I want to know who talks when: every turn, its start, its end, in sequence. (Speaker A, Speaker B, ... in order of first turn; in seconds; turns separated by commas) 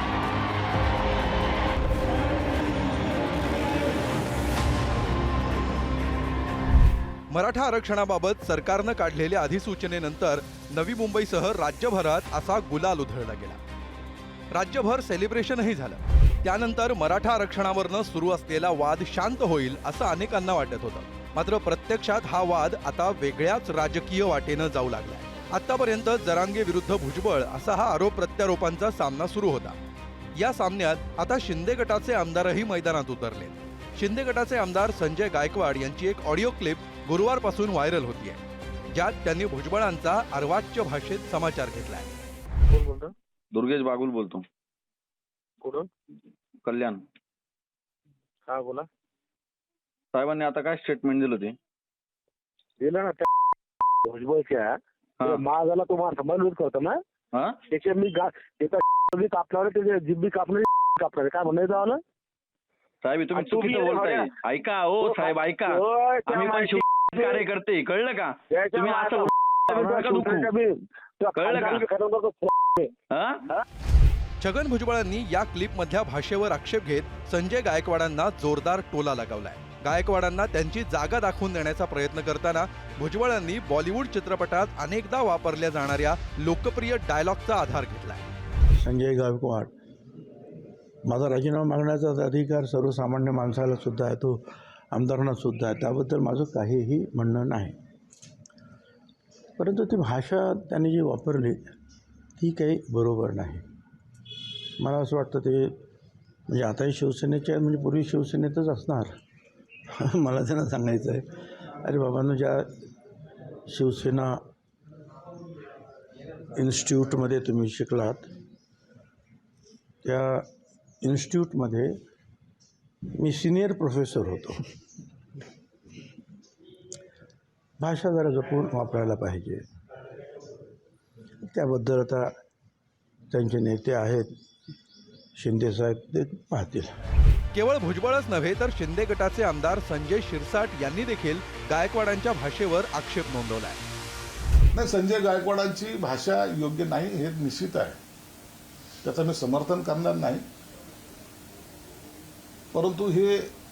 Speaker A: 7.3-13.6, Speaker A: 14.5-29.8, Speaker A: 30.4-38.4, Speaker A: 38.9-42.2, Speaker B: 42.7-43.1, Speaker C: 43.5-44.4, Speaker B: 45.6-45.9, Speaker C: 46.6-47.0, Speaker B: 48.5-48.9, Speaker C: 50.1-51.6, Speaker B: 52.8-53.3, Speaker B: 54.0-57.0, Speaker B: 57.7-62.0, Speaker C: 63.0-70.5, Speaker B: 63.4-64.3, Speaker B: 65.0-67.4, Speaker B: 68.5-72.9, Speaker C: 71.4-71.8, Speaker C: 73.1-73.4, Speaker A: 74.4-88.3, Speaker D: 88.8-89.7, Speaker D: 91.1-94.4, Speaker D: 94.9-97.8, Speaker D: 99.6-101.7, Speaker D: 102.4-103.7, Speaker D: 104.8-105.8, Speaker D: 106.5-109.1, Speaker D: 110.0-111.3, Speaker D: 111.8-112.8, Speaker D: 113.7-114.4, Speaker D: 116.5-118.3, Speaker D: 120.0-120.5, Speaker D: 121.0-122.0, Speaker D: 123.2-124.6, Speaker D: 127.8-129.6, Speaker D: 131.5-132.3, Speaker D: 133.3-134.3, Speaker D: 135.4-136.9, Speaker A: 137.5-143.8, Speaker E: 144.7-148.0, Speaker E: 149.0-150.4, Speaker E: 152.7-153.5